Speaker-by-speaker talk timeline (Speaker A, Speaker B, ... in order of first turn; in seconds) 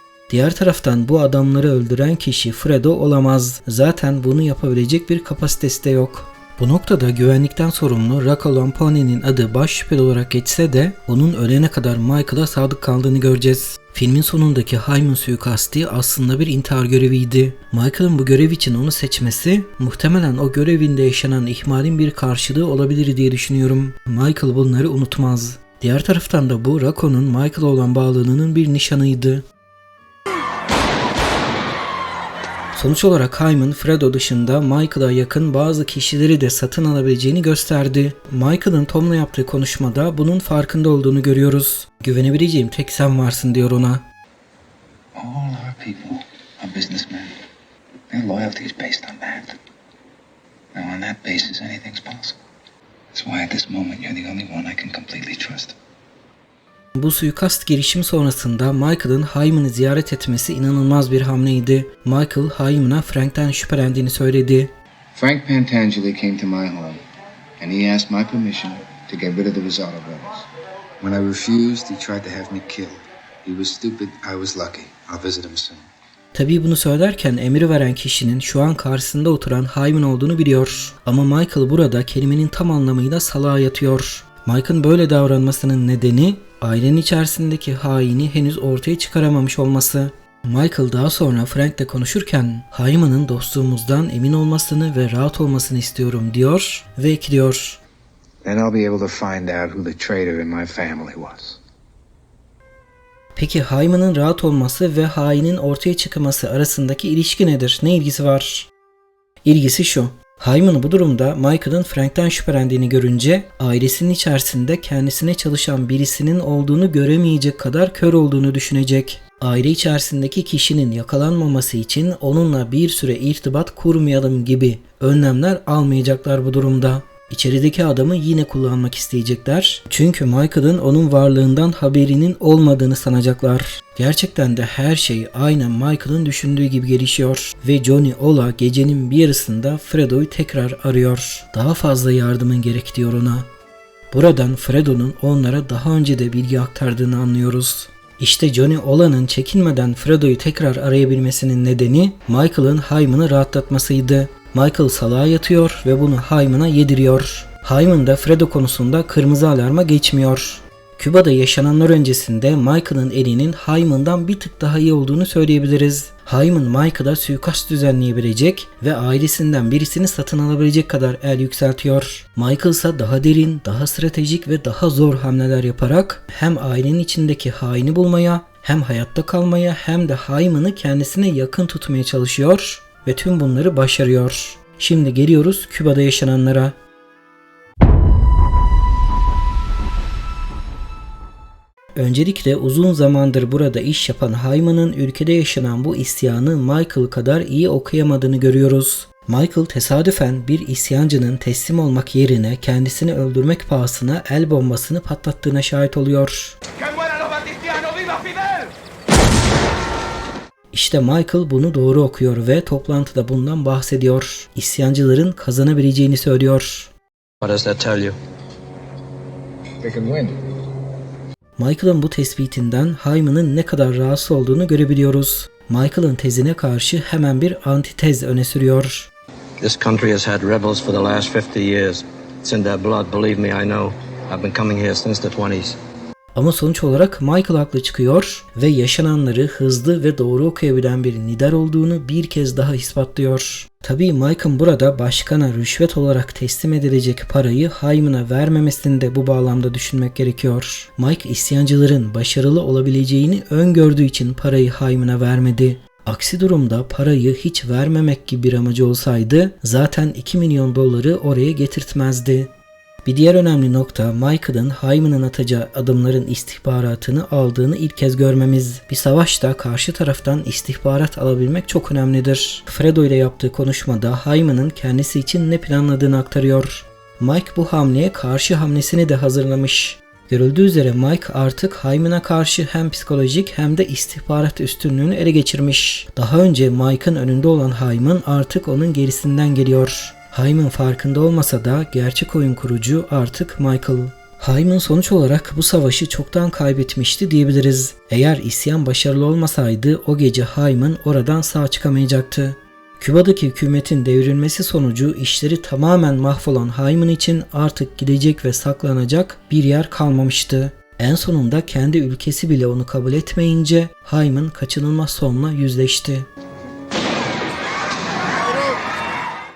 Speaker A: 0.3-29.4, 32.7-44.0, 57.0-64.7, 76.3-97.8, 103.3-108.7, 109.4-143.5, 144.1-186.7, 191.9-206.6, 210.7-216.9, 221.6-229.1, 236.3-262.5, 263.0-316.3
Speaker B: 45.1-47.3, 48.1-49.5, 50.7-52.4, 53.1-55.7, 65.1-67.0, 67.6-70.5, 71.0-75.9, 98.4-101.6, 219.8-220.4
Speaker C: 217.4-218.2, 229.6-235.8